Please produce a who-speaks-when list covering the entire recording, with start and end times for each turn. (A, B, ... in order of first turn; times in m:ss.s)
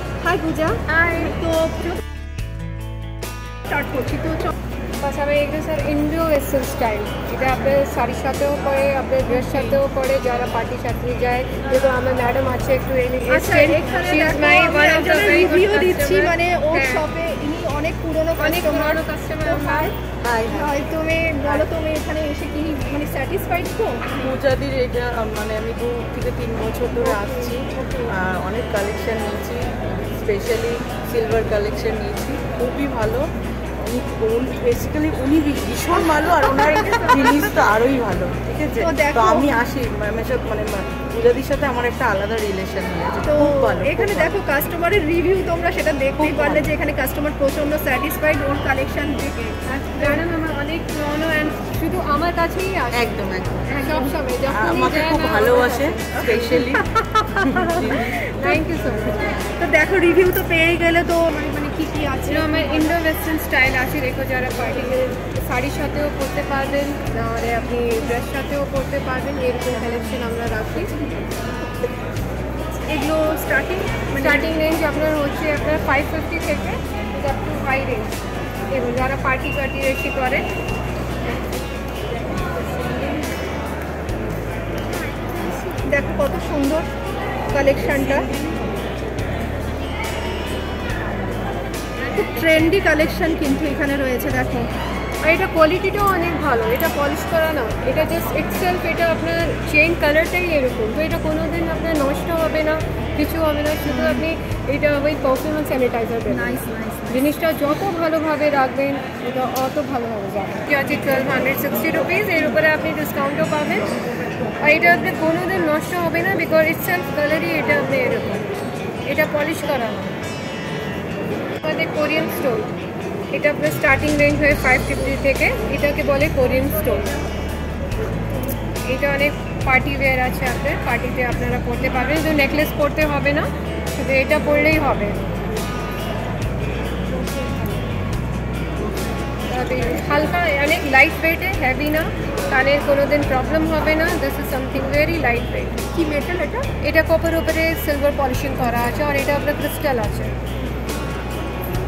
0:00.2-0:02.0 A
0:00.9-0:01.4 B
0:03.7-0:04.5 A
0:05.0-0:17.1 B
0:09.3-0:09.8 A
0:13.3-0:20.0 A
0:18.4-0:19.9 B
0:20.2-0:20.7 C
0:20.5-0:24.1 A
0:24.1-0:33.3 C
0:33.8-0:44.3 C
0:36.5-0:37.5 A
0:38.8-0:39.6 A
0:43.2-0:50.2 A
0:46.2-0:46.7 C
0:49.7-0:56.6 B
0:52.9-0:54.0 C
0:54.5-0:58.3 C
0:56.3-0:56.8 A
0:57.6-0:58.5 A
0:57.9-0:59.4 B
0:59.2-1:03.0 A
1:02.3-1:10.9 B
1:12.9-1:14.6 A
1:14.2-1:18.2 B
1:18.7-1:20.5 B
1:25.8-1:26.9 A
1:27.5-1:28.3 A
1:32.1-1:34.7 A
1:35.2-1:53.9 B
1:43.9-1:44.2 A
1:46.3-1:47.2 A
1:54.6-1:58.5 B
1:59.1-2:00.2 B
2:01.6-2:02.7 B
2:03.3-2:07.1 B
2:08.8-2:15.2 B
2:19.5-2:25.8 B
2:25.9-2:26.7 A
2:26.8-2:30.4 B